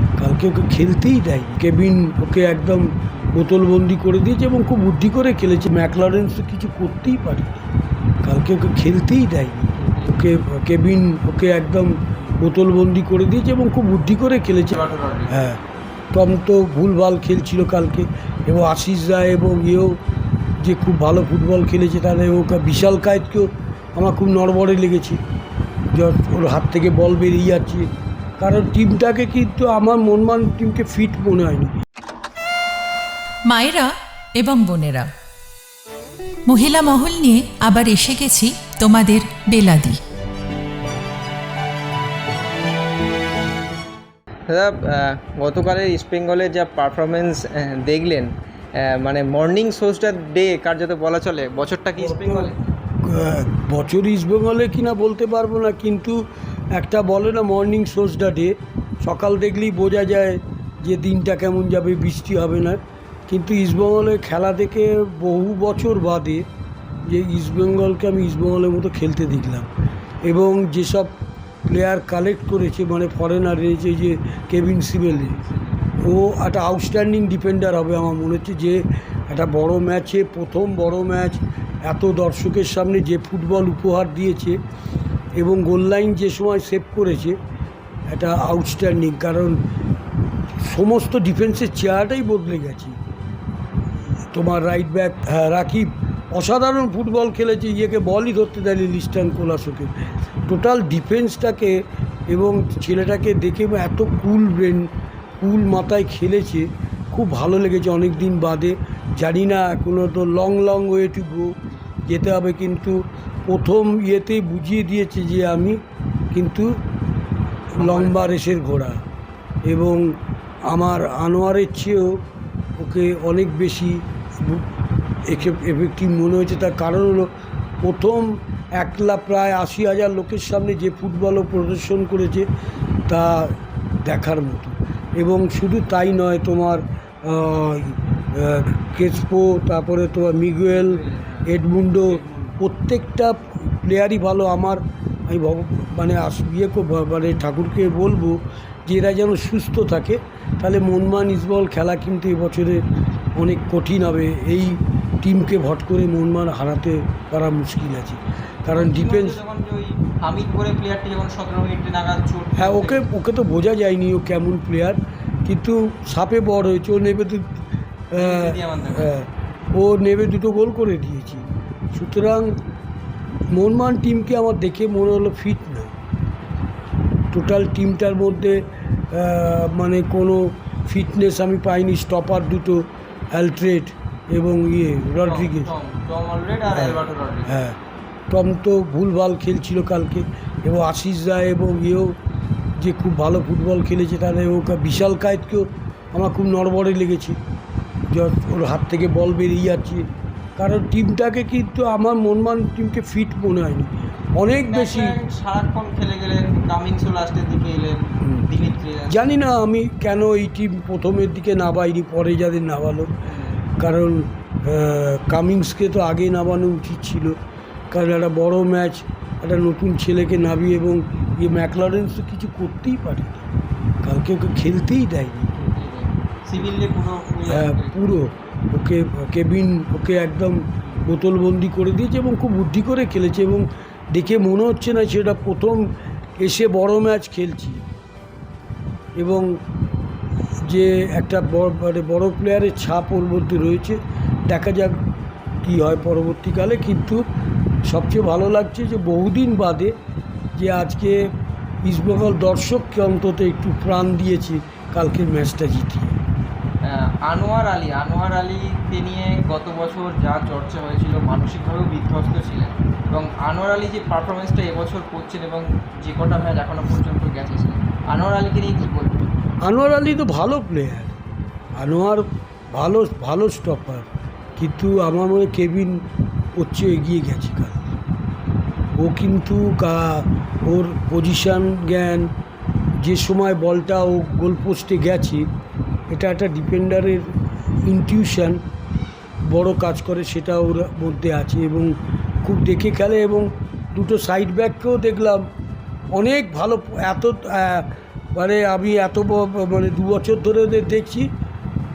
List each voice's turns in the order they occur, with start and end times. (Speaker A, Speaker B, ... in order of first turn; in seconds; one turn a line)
Speaker A: 0.2-7.7
Speaker A: 8.2-15.6
Speaker B: 9.8-10.1
Speaker B: 14.7-15.3
Speaker A: 16.1-20.0
Speaker A: 20.6-25.2
Speaker A: 25.9-27.9
Speaker A: 28.4-31.7
Speaker C: 33.5-35.1
Speaker C: 36.5-40.0
Speaker B: 44.5-52.5
Speaker A: 52.0-56.2
Speaker A: 56.7-66.4
Speaker A: 67.1-69.7
Speaker A: 70.2-71.1
Speaker A: 71.7-75.4
Speaker B: 75.1-75.8
Speaker A: 76.0-84.6
Speaker A: 85.3-87.4
Speaker A: 88.1-89.6
Speaker A: 90.6-93.0
Speaker A: 94.3-104.9
Speaker A: 105.4-111.5
Speaker A: 112.1-115.8
Speaker A: 116.3-116.7
Speaker A: 117.8-119.0
Speaker B: 117.8-118.4
Speaker A: 119.7-120.0
Speaker A: 120.7-122.2
Speaker A: 122.8-124.7
Speaker A: 125.2-127.3
Speaker A: 127.8-132.5
Speaker A: 133.1-152.8
Speaker B: 140.7-142.6
Speaker A: 153.3-159.4
Speaker B: 158.7-163.1
Speaker A: 162.6-167.6
Speaker A: 168.1-172.6
Speaker B: 168.2-169.1
Speaker A: 173.5-175.9
Speaker A: 177.3-185.7
Speaker B: 185.2-187.5
Speaker A: 186.7-187.8
Speaker A: 188.3-192.1
Speaker A: 192.8-197.4
Speaker A: 198.1-200.1
Speaker A: 200.6-205.2
Speaker B: 204.6-209.3
Speaker A: 208.2-208.5
Speaker A: 209.1-213.1
Speaker B: 213.3-213.6
Speaker A: 213.8-217.4
Speaker A: 217.9-223.5
Speaker A: 224.0-225.5
Speaker B: 225.6-228.2
Speaker A: 227.4-237.8
Speaker A: 239.2-239.6
Speaker A: 240.7-245.0
Speaker A: 245.6-247.2
Speaker A: 247.8-249.9
Speaker A: 250.6-251.3
Speaker A: 251.8-256.2
Speaker B: 256.8-269.3
Speaker A: 269.6-271.1
Speaker A: 271.8-276.0
Speaker A: 276.6-277.9
Speaker A: 279.0-282.3
Speaker A: 283.0-285.5
Speaker A: 286.1-287.3
Speaker A: 287.8-288.6
Speaker A: 289.4-295.4
Speaker A: 296.1-301.3